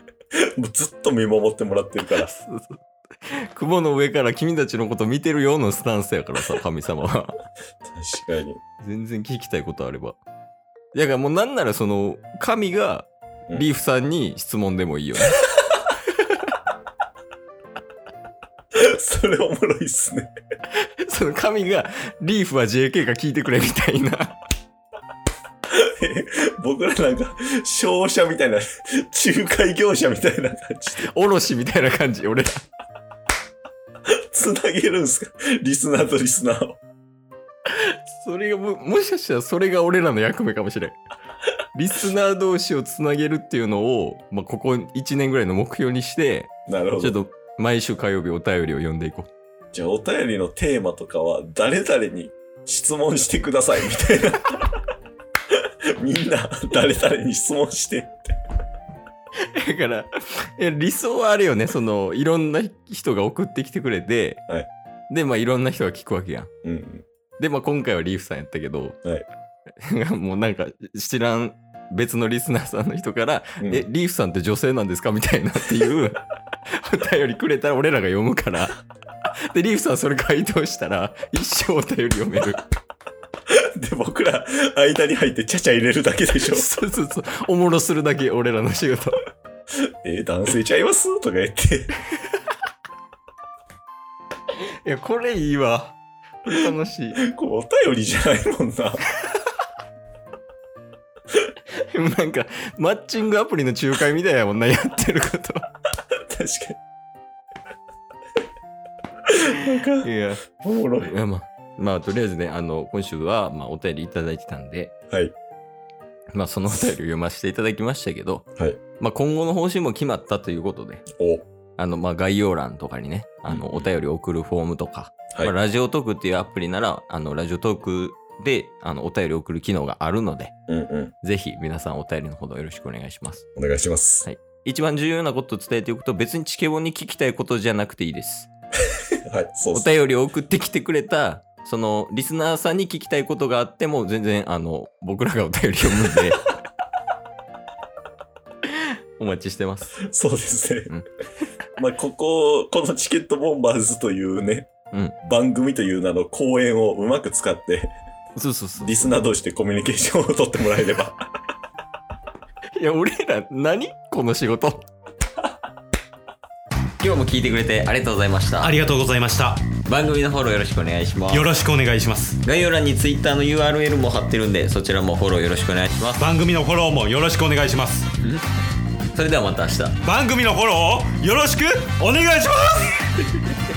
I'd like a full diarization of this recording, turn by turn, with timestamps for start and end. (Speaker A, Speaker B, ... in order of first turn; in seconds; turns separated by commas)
Speaker A: 0.6-2.3, Speaker B: 2.2-2.8, Speaker B: 3.5-7.3, Speaker A: 7.8-8.6, Speaker B: 8.8-10.2, Speaker B: 10.9-15.4, Speaker A: 18.9-20.3, Speaker B: 20.8-24.4, Speaker A: 25.7-31.1, Speaker B: 31.0-32.6, Speaker A: 34.3-36.8, Speaker B: 37.7-41.0, Speaker B: 41.7-49.3, Speaker A: 46.7-47.2, Speaker A: 49.7-54.7, Speaker A: 56.0-58.2, Speaker B: 59.5-64.4, Speaker B: 65.1-66.5, Speaker A: 66.6-67.0, Speaker B: 67.4-69.0, Speaker B: 69.8-78.8, Speaker A: 73.6-73.9, Speaker B: 79.5-82.6, Speaker A: 83.5-86.7, Speaker B: 86.4-89.2, Speaker A: 90.0-91.9, Speaker B: 94.8-97.2, Speaker A: 97.2-99.0, Speaker B: 101.8-105.7, Speaker A: 106.3-106.8, Speaker A: 109.3-111.1, Speaker B: 110.0-114.9, Speaker B: 116.3-118.5, Speaker B: 119.0-121.0, Speaker A: 121.2-121.5, Speaker B: 121.8-130.5, Speaker A: 123.5-123.9, Speaker A: 130.7-131.1, Speaker B: 131.2-133.4, Speaker A: 133.6-134.2, Speaker B: 134.2-138.5, Speaker A: 139.2-139.9, Speaker B: 139.7-146.4, Speaker B: 149.2-150.0, Speaker A: 150.0-150.9, Speaker A: 151.8-157.9, Speaker B: 158.3-159.1, Speaker A: 158.8-161.2, Speaker B: 162.8-164.9, Speaker B: 167.0-168.8, Speaker C: 168.6-169.7, Speaker B: 169.8-171.5, Speaker C: 171.3-172.4, Speaker B: 172.4-176.3, Speaker C: 176.2-178.1, Speaker B: 179.1-180.0, Speaker C: 180.0-183.2